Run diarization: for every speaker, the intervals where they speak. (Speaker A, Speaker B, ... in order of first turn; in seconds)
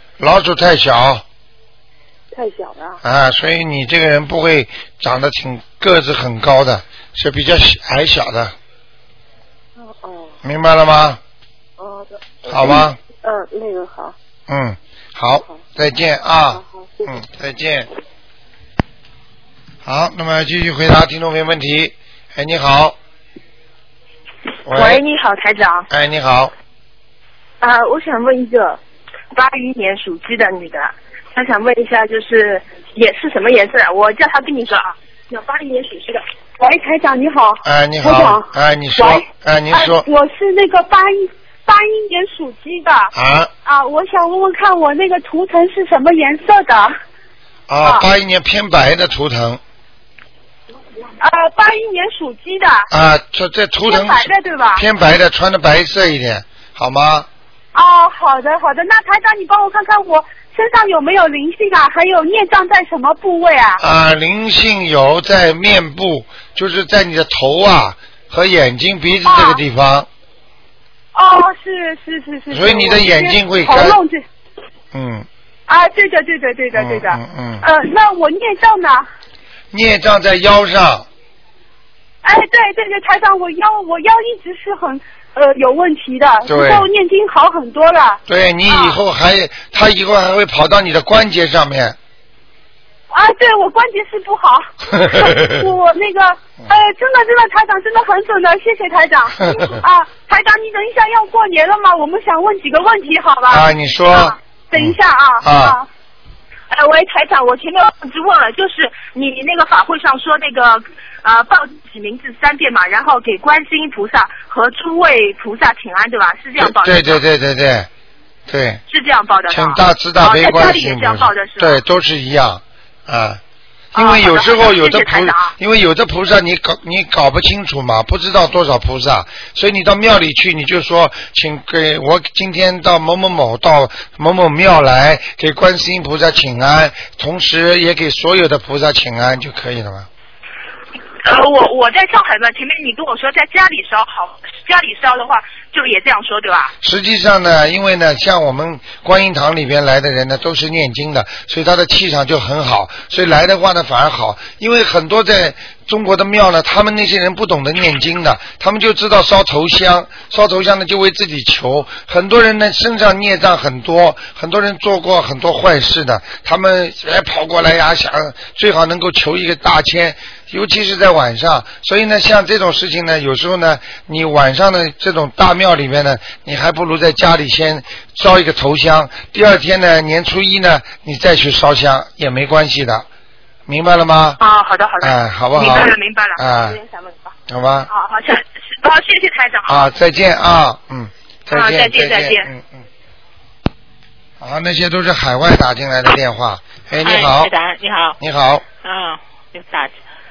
Speaker A: 0.2-1.2, 3.0-8.6, 10.4-11.2, 12.5-13.0, 14.5-17.9, 19.9-23.0, 24.7-25.0, 25.9-26.5, 37.6-40.1, 43.1-43.5, 47.7-49.6, 52.9-57.3, 63.8-70.1, 72.5-74.0, 74.9-75.3, 76.7-77.7, 79.7-81.1, 86.5-86.9, 88.3-92.0, 94.9-95.6, 99.5-99.7, 103.5-105.8, 116.6-117.9, 118.5-118.8, 119.5-123.4, 123.9-140.1, 146.8-183.1, 183.7-184.4, 185.0-186.8, 187.5-187.9, 189.7-192.8, 194.4-197.5, 198.2-198.7
Speaker B: 2.3-3.0, 9.8-10.4, 11.8-14.2, 16.5-17.2
Speaker C: 24.7-25.9, 27.6-28.8, 29.3-36.2, 106.7-117.2, 118.9-121.8, 123.9-125.5, 141.2-146.7, 184.4-187.3, 187.9-189.8, 191.5-192.5
Speaker D: 36.6-43.1, 43.6-47.0, 51.2-52.9, 53.8-54.9, 57.7-63.8, 69.2-69.6, 71.2-74.2, 75.7-79.0, 82.2-89.0, 93.1-105.9
Speaker E: 197.0-198.2, 198.8-200.0